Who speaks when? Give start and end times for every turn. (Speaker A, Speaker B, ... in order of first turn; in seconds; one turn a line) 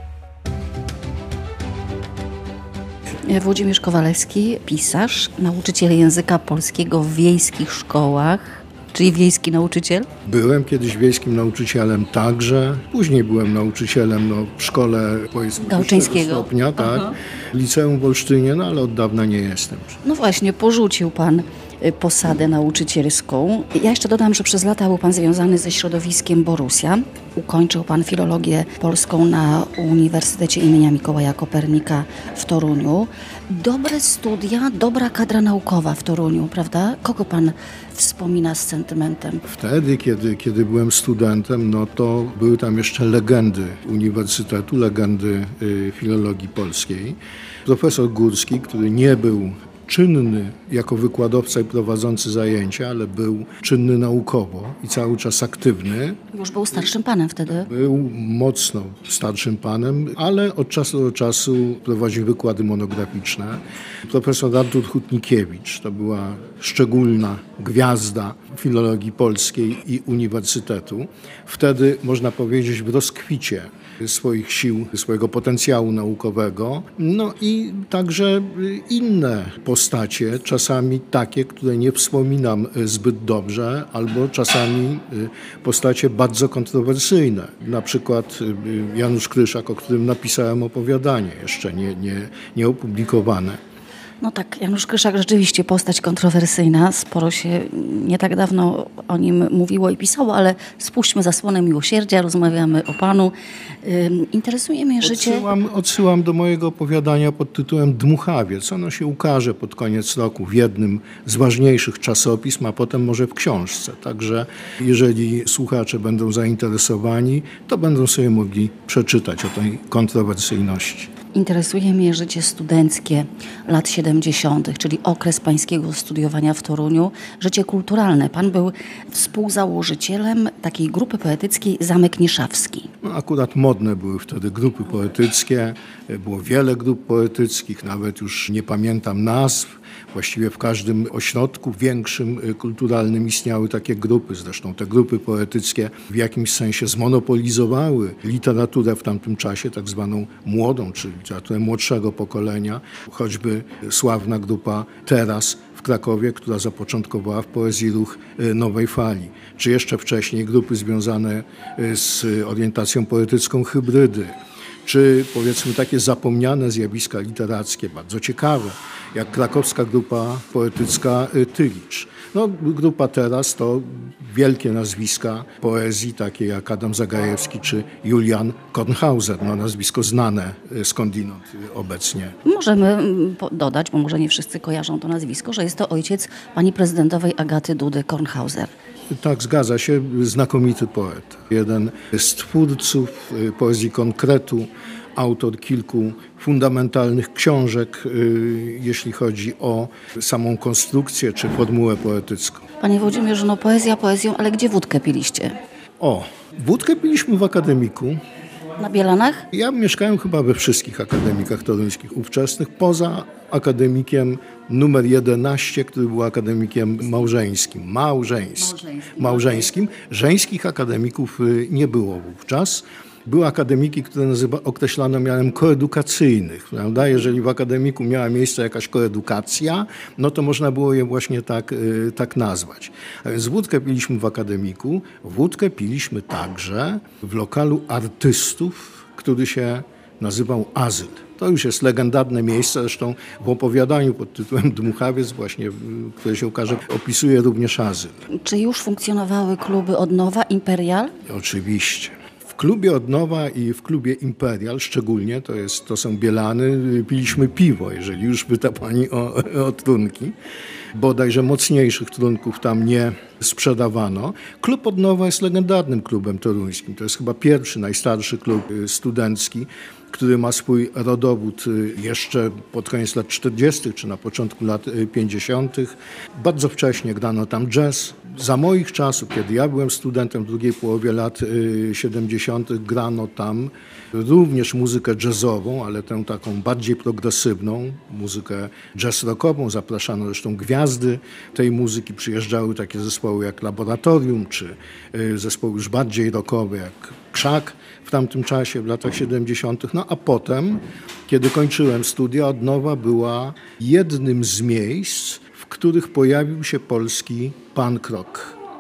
Speaker A: 3.2-10.1
Speaker B: 10.2-20.0
Speaker A: 15.6-17.1
Speaker A: 20.0-39.4
Speaker B: 39.5-56.2
Speaker A: 56.3-57.7
Speaker B: 57.6-93.6
Speaker A: 94.2-105.5
Speaker B: 105.0-121.1
Speaker A: 121.3-132.9
Speaker B: 133.0-182.4
Speaker A: 182.4-188.7
Speaker B: 189.1-202.6
Speaker A: 202.8-205.5
Speaker B: 206.0-208.2
Speaker A: 208.8-209.4
Speaker B: 209.5-248.2
Speaker A: 218.7-219.2
Speaker A: 248.3-251.1
Speaker B: 251.2-260.4
Speaker B: 260.9-308.6